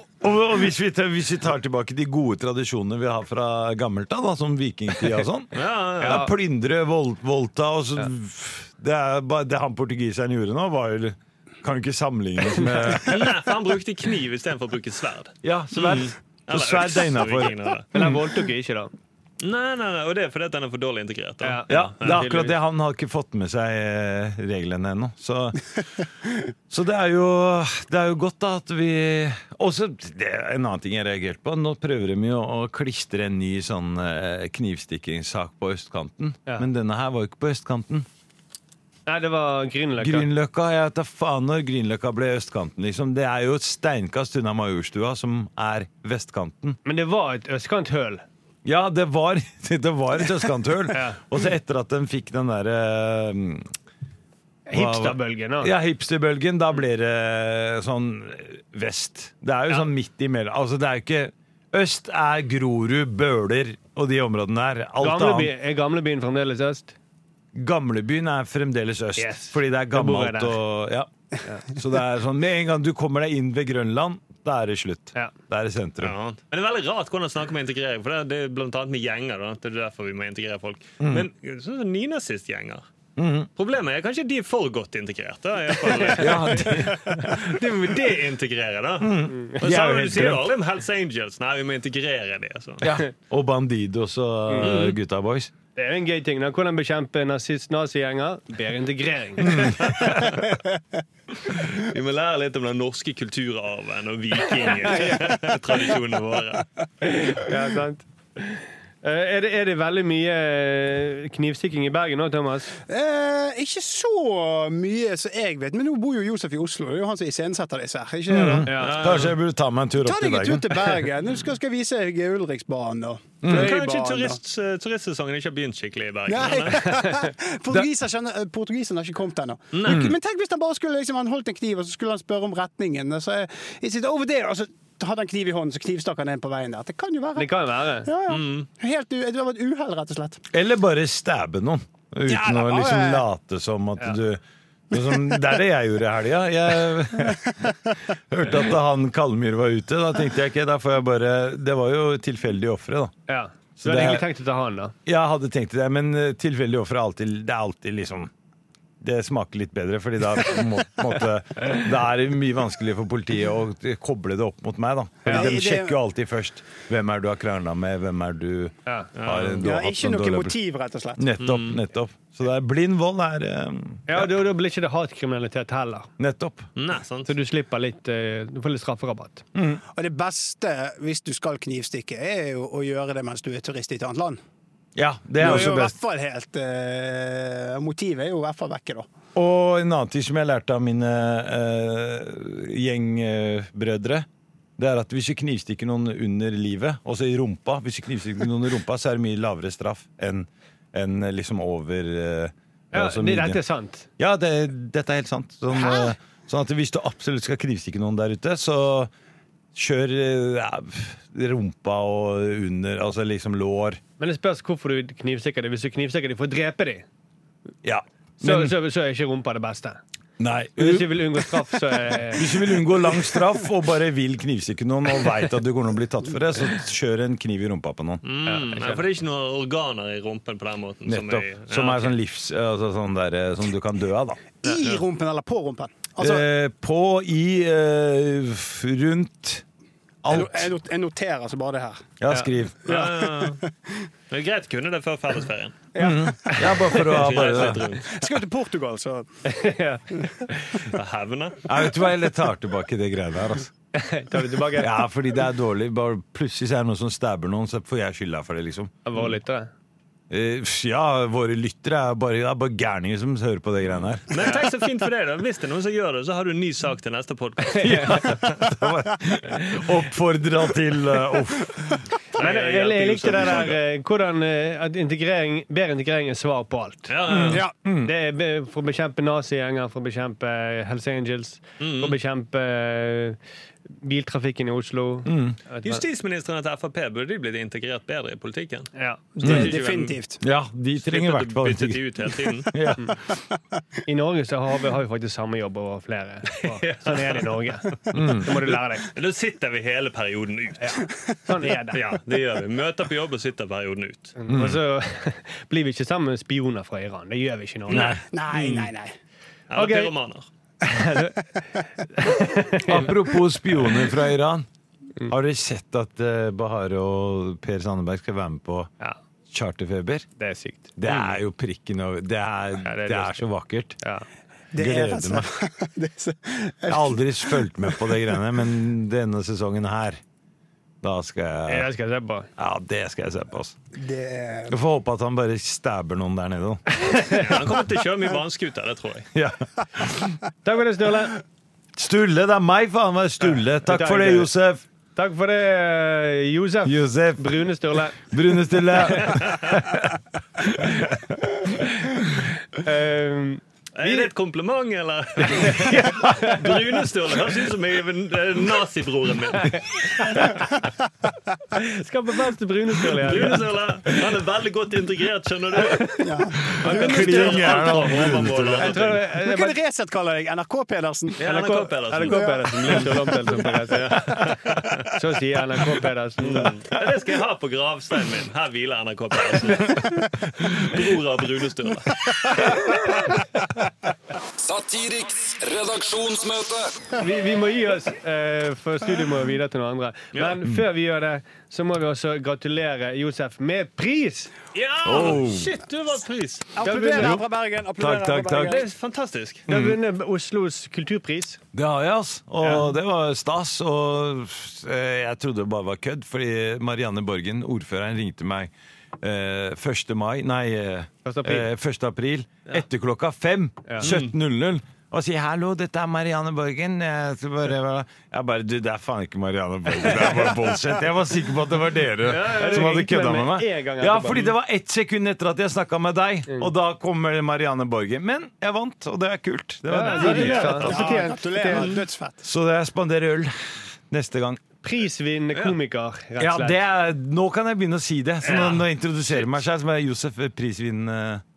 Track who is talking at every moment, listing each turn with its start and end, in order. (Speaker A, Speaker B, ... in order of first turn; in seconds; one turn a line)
Speaker A: 0.2-13.4
Speaker B: 5.5-6.3
Speaker B: 13.0-17.9
Speaker A: 15.4-18.2
Speaker C: 17.9-18.9
Speaker B: 19.4-22.2
Speaker C: 21.4-22.6
Speaker A: 21.7-25.8
Speaker A: 26.7-38.1
Speaker C: 39.1-40.3
Speaker A: 40.0-46.8
Speaker C: 46.9-48.2
Speaker A: 48.6-53.7
Speaker C: 50.9-51.2
Speaker C: 54.7-55.7
Speaker A: 54.7-65.5
Speaker C: 65.0-67.0
Speaker A: 67.5-71.1
Speaker C: 69.2-70.6
Speaker A: 71.6-76.1
Speaker B: 76.0-82.8
Speaker A: 81.0-81.3
Speaker A: 83.2-83.5
Speaker B: 83.6-92.9
Speaker C: 85.8-86.9
Speaker A: 86.1-87.2
Speaker A: 89.0-90.5
Speaker A: 92.8-95.5
Speaker C: 94.5-94.8
Speaker B: 94.6-95.0
Speaker C: 95.8-100.4
Speaker A: 99.5-99.8
Speaker B: 99.8-100.5
Speaker B: 101.4-106.7
Speaker C: 104.7-105.4
Speaker C: 107.0-112.8
Speaker D: 112.9-118.8
Speaker A: 118.3-121.0
Speaker C: 118.7-119.1
Speaker B: 118.7-119.3
Speaker D: 120.0-124.4
Speaker A: 123.4-123.8
Speaker B: 123.5-127.0
Speaker D: 126.3-140.4
Speaker B: 129.7-130.1
Speaker A: 129.8-130.2
Speaker C: 137.4-138.1
Speaker B: 138.3-138.7
Speaker A: 140.5-147.7
Speaker D: 142.3-143.2
Speaker A: 148.3-153.1
Speaker C: 153.3-154.9
Speaker A: 153.8-154.3
Speaker A: 155.1-158.3
Speaker A: 159.0-170.6
Speaker C: 165.2-165.5
Speaker D: 165.3-166.0
Speaker B: 169.2-169.7
Speaker D: 169.6-171.3
Speaker A: 171.2-174.3
Speaker B: 171.4-171.8
Speaker C: 174.1-176.1
Speaker A: 176.2-176.7
Speaker B: 176.8-177.3
Speaker C: 177.3-179.4
Speaker A: 179.6-179.8
Speaker D: 179.9-184.4
Speaker A: 185.0-185.9
Speaker D: 185.4-189.1
Speaker A: 189.3-194.3
Speaker A: 194.8-203.6
Speaker C: 202.9-204.1
Speaker A: 204.2-209.1
Speaker A: 209.8-214.0
Speaker C: 214.2-217.1
Speaker A: 217.8-218.8
Speaker C: 218.4-220.0
Speaker A: 220.4-228.2
Speaker C: 220.8-222.7
Speaker B: 228.2-232.2
Speaker C: 228.5-229.1
Speaker A: 231.1-234.4
Speaker D: 234.6-236.4
Speaker A: 236.2-239.6
Speaker A: 240.2-240.7
Speaker D: 240.3-242.1
Speaker A: 242.2-243.0
Speaker B: 242.8-243.6
Speaker D: 242.9-243.6
Speaker B: 244.3-245.8
Speaker D: 245.9-246.8
Speaker A: 246.0-247.9
Speaker C: 246.5-247.1
Speaker B: 246.9-248.3
Speaker D: 248.1-249.3
Speaker C: 249.4-250.8
Speaker B: 250.8-251.8
Speaker A: 251.7-253.7
Speaker C: 253.9-255.0
Speaker A: 254.8-258.9
Speaker C: 259.1-259.7
Speaker A: 260.3-264.3
Speaker B: 264.3-268.6
Speaker C: 267.8-268.2
Speaker A: 267.8-272.0
Speaker B: 272.3-273.8
Speaker C: 272.4-277.1
Speaker B: 277.1-277.6
Speaker A: 277.3-278.1
Speaker D: 277.5-277.7
Speaker C: 278.0-283.4
Speaker B: 281.8-282.1
Speaker C: 283.9-286.0
Speaker A: 285.2-285.6
Speaker B: 285.8-290.2
Speaker C: 288.9-289.3
Speaker D: 289.4-290.4
Speaker A: 289.4-289.8
Speaker A: 290.4-293.2
Speaker B: 291.0-292.8
Speaker C: 294.1-299.1
Speaker B: 296.6-297.5
Speaker A: 298.1-298.6
Speaker B: 299.1-301.0
Speaker C: 300.8-302.0
Speaker B: 301.9-304.4
Speaker C: 304.4-308.1
Speaker A: 304.5-304.8
Speaker B: 307.9-308.9
Speaker A: 307.9-308.2
Speaker D: 308.3-309.1
Speaker B: 309.7-310.5
Speaker C: 309.7-310.1
Speaker C: 310.8-313.2
Speaker A: 312.8-314.7
Speaker A: 315.3-318.9
Speaker A: 319.5-320.3
Speaker C: 320.4-321.4
Speaker A: 321.0-324.0
Speaker C: 322.8-323.5
Speaker C: 324.0-324.3
Speaker D: 324.7-328.3
Speaker A: 324.8-325.5
Speaker A: 326.9-330.2
Speaker A: 331.0-331.9
Speaker C: 331.7-332.5
Speaker A: 332.6-333.8
Speaker D: 333.9-334.8
Speaker A: 334.7-336.8
Speaker C: 336.9-337.5
Speaker B: 337.3-339.3
Speaker A: 339.4-340.4
Speaker C: 340.6-341.4
Speaker A: 342.0-344.8
Speaker C: 343.8-344.5
Speaker C: 345.1-348.2
Speaker A: 346.9-347.6
Speaker A: 348.2-351.3
Speaker C: 351.8-354.3
Speaker B: 353.9-360.4
Speaker C: 355.5-356.7
Speaker A: 356.0-356.5
Speaker C: 359.6-360.5
Speaker C: 361.7-364.2
Speaker B: 363.2-366.2
Speaker C: 365.8-366.2
Speaker D: 366.2-368.0
Speaker A: 366.7-368.9
Speaker C: 366.8-367.7
Speaker B: 366.8-369.2
Speaker C: 368.8-369.8
Speaker D: 369.4-371.4
Speaker B: 371.4-373.3
Speaker C: 371.4-376.8
Speaker D: 372.2-373.6
Speaker B: 373.9-375.0
Speaker B: 376.4-383.1
Speaker E: 384.6-387.1
Speaker C: 387.2-394.5
Speaker B: 394.7-396.7
Speaker A: 395.0-395.7
Speaker D: 396.8-398.9
Speaker C: 396.8-397.4
Speaker A: 397.2-397.5
Speaker A: 398.0-398.8
Speaker B: 398.6-399.7
Speaker A: 399.7-400.0
Speaker C: 399.7-401.6
Speaker A: 401.7-431.1
Speaker C: 402.6-402.9
Speaker C: 411.2-411.7
Speaker B: 414.0-414.3
Speaker C: 422.2-424.5
Speaker C: 429.9-432.0
Speaker D: 430.1-432.5
Speaker B: 430.7-431.1
Speaker B: 431.7-432.0
Speaker A: 432.4-434.6
Speaker C: 434.8-436.8
Speaker A: 436.4-441.4
Speaker B: 438.4-439.6